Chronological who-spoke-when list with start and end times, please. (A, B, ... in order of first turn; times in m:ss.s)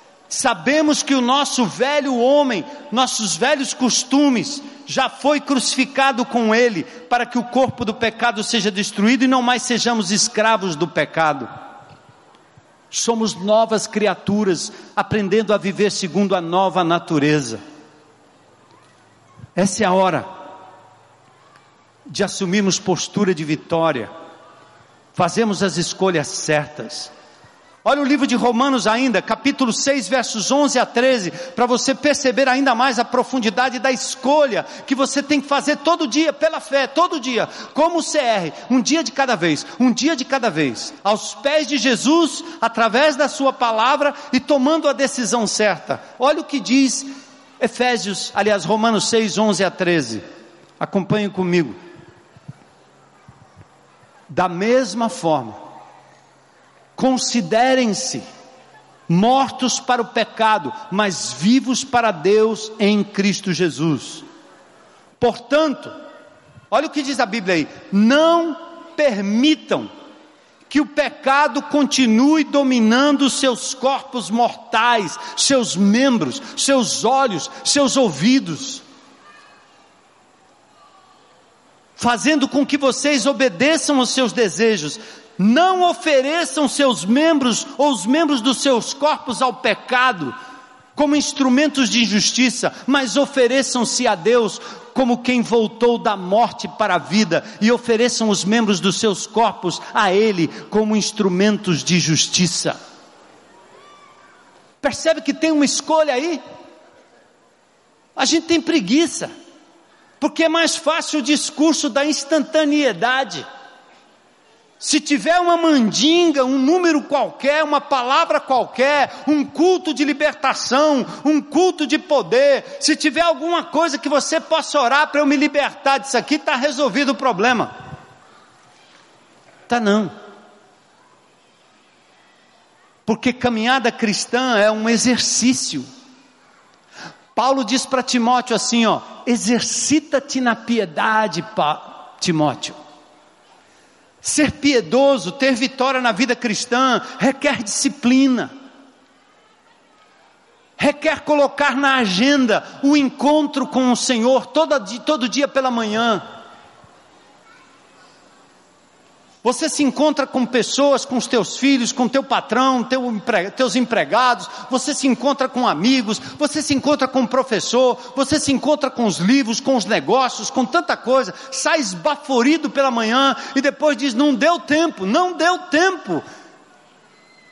0:00.3-0:11.5 A
0:12.9-0:17.6 A
0:19.6-0:20.3 A
0:22.1-0:24.1 A
0:25.2-0:27.1 A
0:27.8-0:47.1 A
0:47.6-0:50.2 A
0:50.8-0:51.8 A
0:54.3-0:55.6 A
0:57.0-0:58.2 A
0:59.1-1:04.2 A
1:05.2-1:05.9 A
1:06.7-1:09.9 A
1:10.7-1:18.8 A
1:22.0-1:30.4 A
1:31.0-1:42.8 A
1:44.8-1:46.4 A
1:48.2-1:49.3 A
1:50.2-1:53.4 A
1:54.8-2:07.7 A
2:09.7-2:10.1 A
2:13.1-2:15.9 A
2:17.4-2:22.8 A
2:24.2-2:28.5 A
2:30.8-2:36.2 A
2:39.4-2:56.2 A